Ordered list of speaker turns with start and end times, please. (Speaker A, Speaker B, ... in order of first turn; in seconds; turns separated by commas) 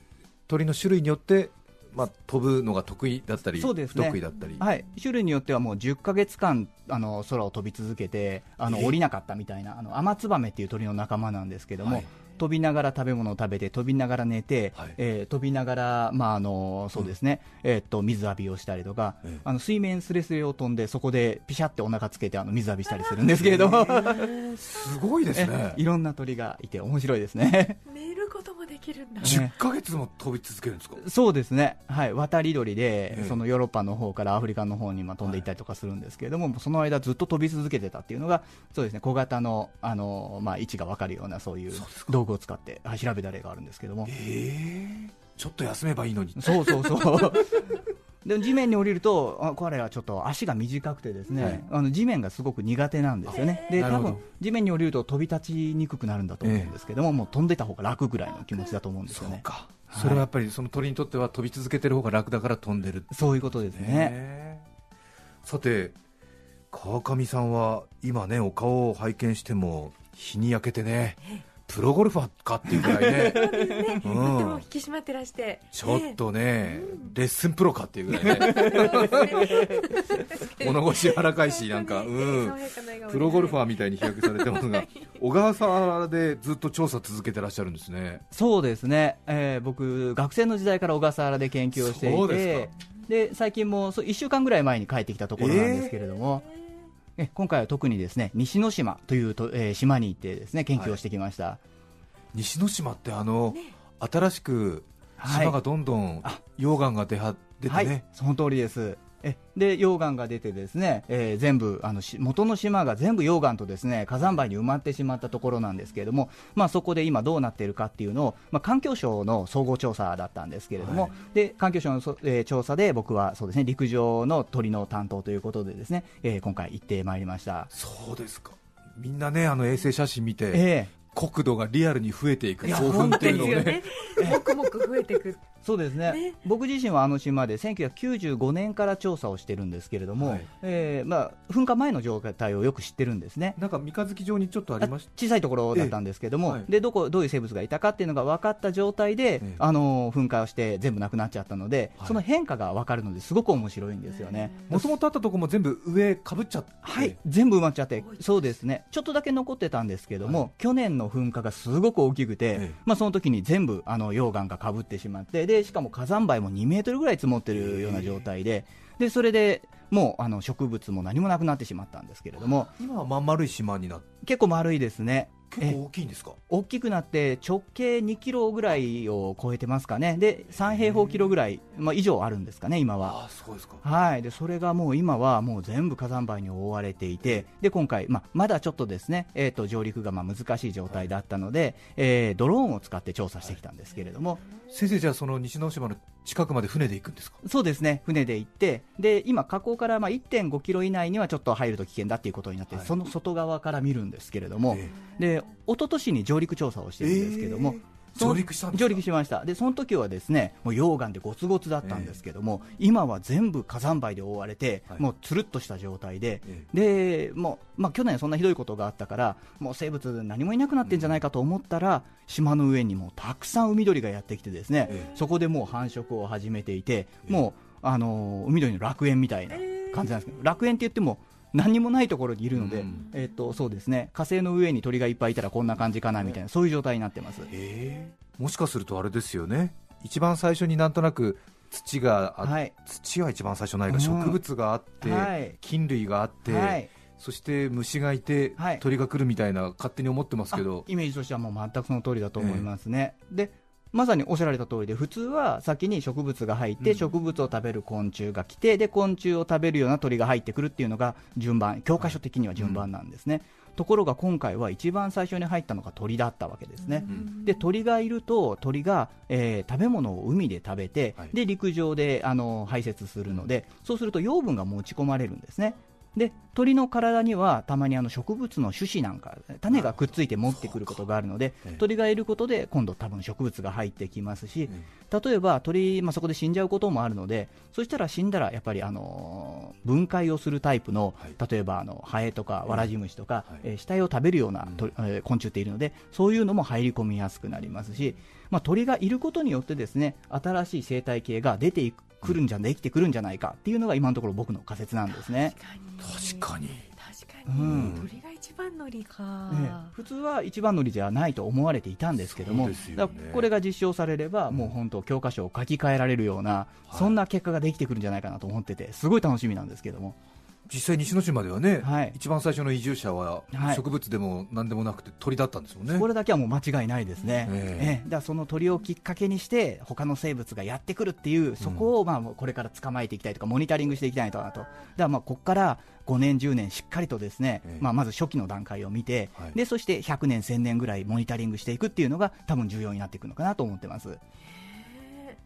Speaker A: 0.5-4.7, Speaker B: 3.6-24.3, Speaker A: 8.7-9.0, Speaker A: 11.8-12.1, Speaker A: 23.2-25.8, Speaker B: 25.3-27.8, Speaker C: 27.9-29.4, Speaker A: 29.2-31.0, Speaker B: 29.2-29.5, Speaker B: 31.0-44.1, Speaker A: 33.1-33.4, Speaker A: 41.7-42.2, Speaker A: 44.1-47.4, Speaker B: 46.4-60.3, Speaker A: 51.4-51.6, Speaker A: 53.3-54.2, Speaker C: 53.4-53.7, Speaker A: 56.4-56.7, Speaker A: 59.1-64.7, Speaker B: 63.1-64.2, Speaker A: 65.4-66.0, Speaker A: 66.7-74.7, Speaker B: 72.7-73.9, Speaker C: 72.9-77.2, Speaker A: 75.7-88.2, Speaker B: 78.3-79.9, Speaker C: 78.3-85.0, Speaker B: 88.3-96.5, Speaker A: 91.8-92.7, Speaker A: 95.4-95.9, Speaker B: 97.2-101.6, Speaker A: 102.3-108.0, Speaker B: 105.2-105.6, Speaker B: 107.7-127.7, Speaker A: 120.8-121.1, Speaker A: 127.7-134.4, Speaker B: 130.5-130.9, Speaker B: 132.6-134.4, Speaker C: 132.7-135.4, Speaker B: 135.6-143.6, Speaker C: 136.0-136.3, Speaker A: 140.2-140.5, Speaker A: 143.6-145.1, Speaker B: 144.8-154.9, Speaker A: 154.7-157.2, Speaker B: 156.8-172.7, Speaker A: 167.5-168.3, Speaker A: 172.4-174.1, Speaker B: 174.2-175.8, Speaker A: 175.5-176.4, Speaker B: 176.5-183.2, Speaker A: 180.7-181.2, Speaker A: 183.0-183.8, Speaker B: 183.8-194.4, Speaker A: 194.7-197.4, Speaker B: 197.4-237.5, Speaker A: 202.7-203.0, Speaker A: 204.7-204.9, Speaker A: 207.0-209.0, Speaker A: 211.8-212.2, Speaker A: 220.8-221.2, Speaker A: 232.5-233.1, Speaker A: 237.5-250.9, Speaker B: 242.4-242.7, Speaker B: 243.9-244.4, Speaker B: 245.0-245.6, Speaker B: 246.4-246.9, Speaker B: 248.6-248.8, Speaker B: 250.5-305.5, Speaker A: 252.4-252.7, Speaker A: 262.0-262.9, Speaker C: 266.8-267.6, Speaker A: 279.7-281.0, Speaker C: 305.1-309.9, Speaker A: 306.0-306.9, Speaker B: 307.5-308.0, Speaker A: 307.6-308.1, Speaker B: 309.5-320.2, Speaker A: 312.3-313.5, Speaker A: 316.9-317.1, Speaker A: 320.7-326.1, Speaker B: 321.8-322.1, Speaker B: 323.5-323.8, Speaker B: 325.9-344.2, Speaker A: 327.4-328.0, Speaker A: 331.6-331.9, Speaker C: 344.5-345.4